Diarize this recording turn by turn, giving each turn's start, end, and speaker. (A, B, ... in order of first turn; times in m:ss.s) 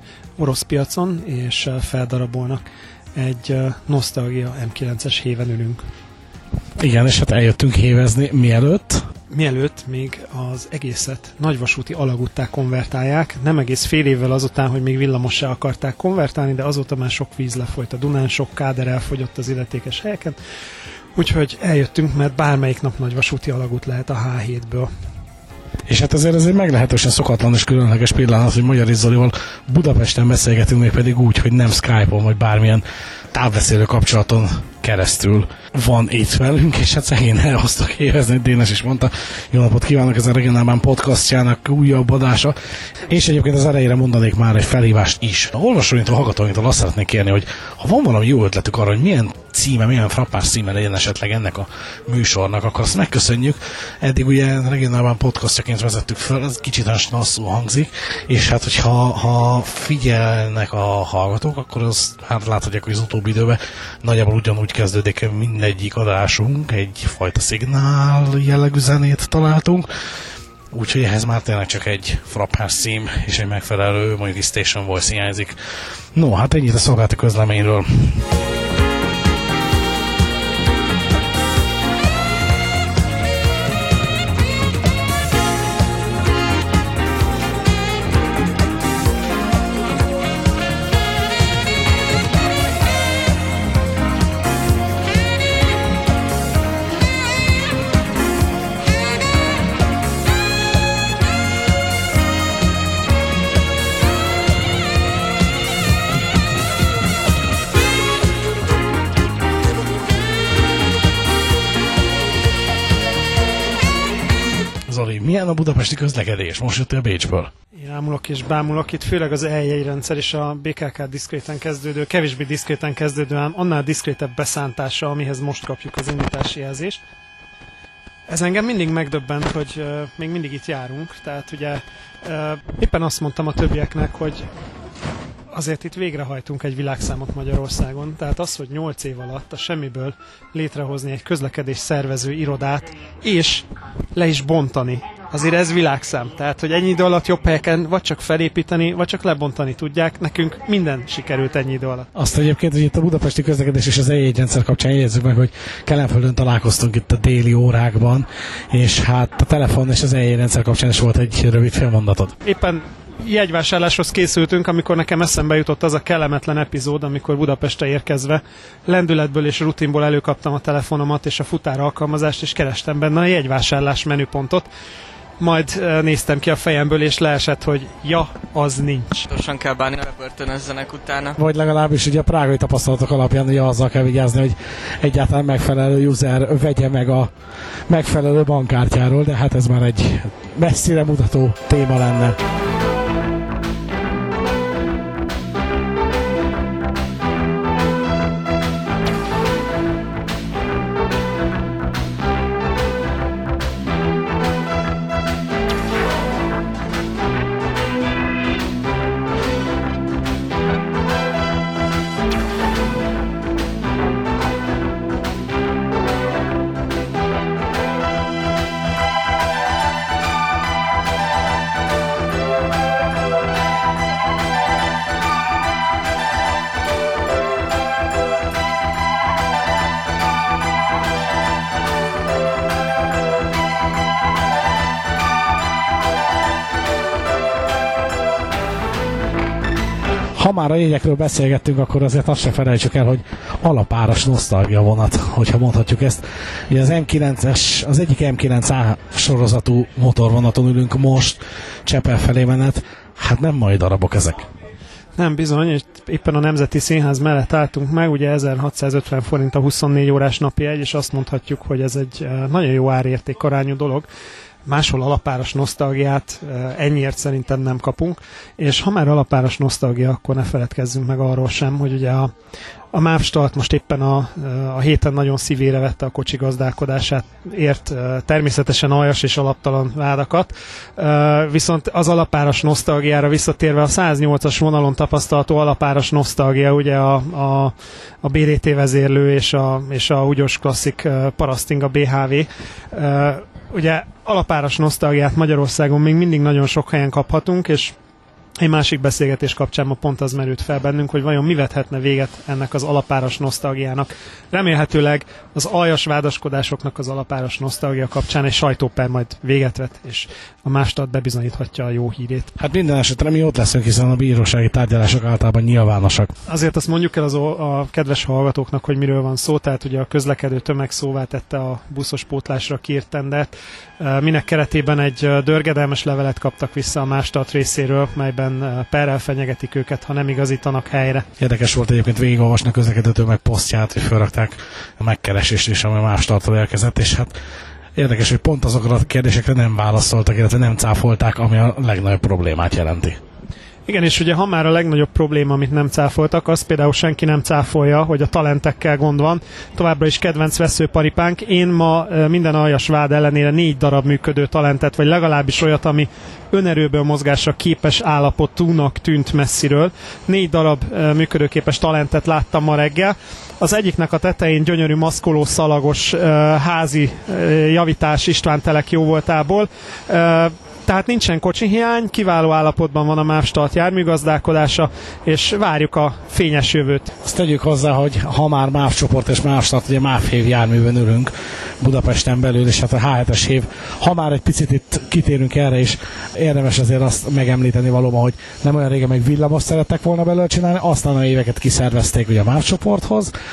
0:00.4-0:02.6 A
0:03.2-0:05.8 A
0:06.8-0:09.0 B
0:09.3-0:20.4 A
0:21.2-0:24.9 A
0:25.9-0:42.5 B
0:43.1-1:09.9 B
1:10.7-1:15.6 B
1:16.1-1:18.2 B
1:54.9-1:57.5 B
1:57.7-2:07.0 A
2:08.3-2:14.5 A
2:15.5-2:32.1 A
2:32.1-2:42.3 B
2:42.4-2:54.7 A
2:55.4-2:59.2 A
2:59.3-3:01.4 C
3:01.4-3:07.3 B
3:07.9-3:12.4 B
4:00.3-4:14.5 B
4:15.2-4:24.1 A
4:24.6-4:32.3 A
4:32.9-4:57.9 A
4:58.6-5:12.5 A
5:12.6-5:16.3 B
5:16.5-5:31.3 A
5:31.4-5:37.3 B
5:38.0-5:43.2 B
5:43.9-6:17.1 A
6:17.2-6:33.3 B